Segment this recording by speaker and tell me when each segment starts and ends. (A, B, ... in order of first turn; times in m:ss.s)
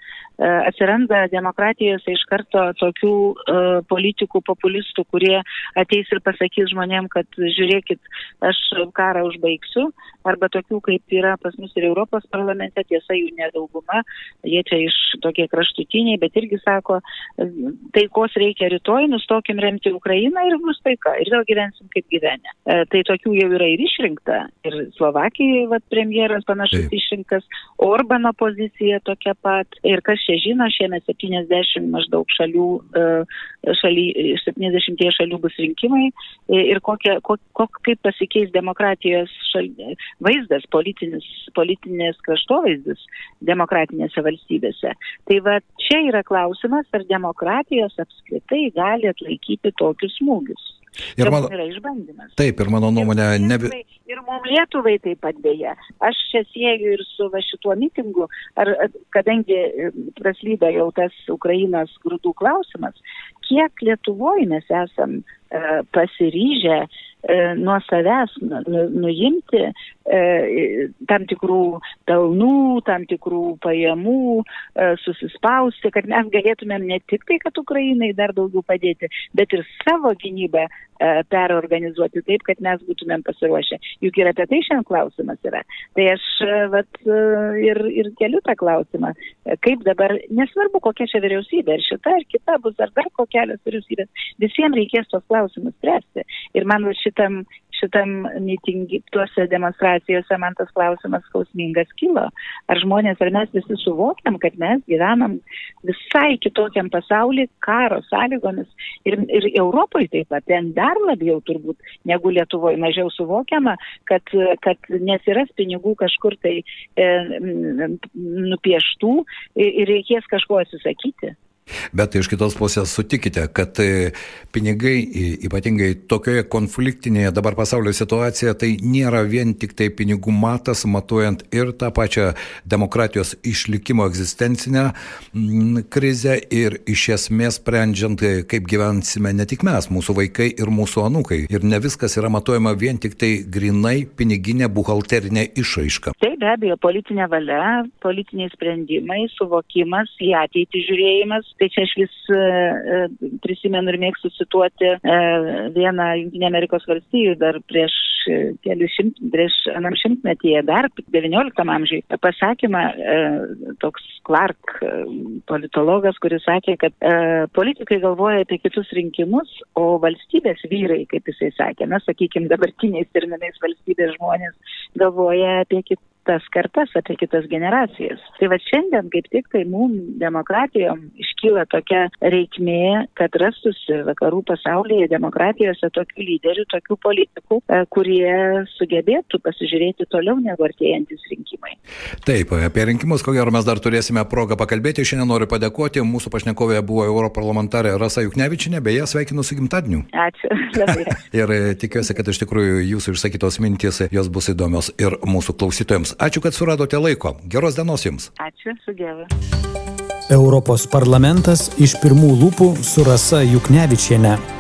0:00.4-0:52.4 A
0:51.2-0:51.5 B
0:52.4-0:53.7 B
0:53.0-2:01.3 A
2:01.9-2:26.1 B
2:26.2-3:11.8 A
3:12.2-3:20.0 B
3:20.1-3:21.2 A
3:21.2-3:28.3 B
3:28.4-3:29.3 A
3:30.3-3:34.4 C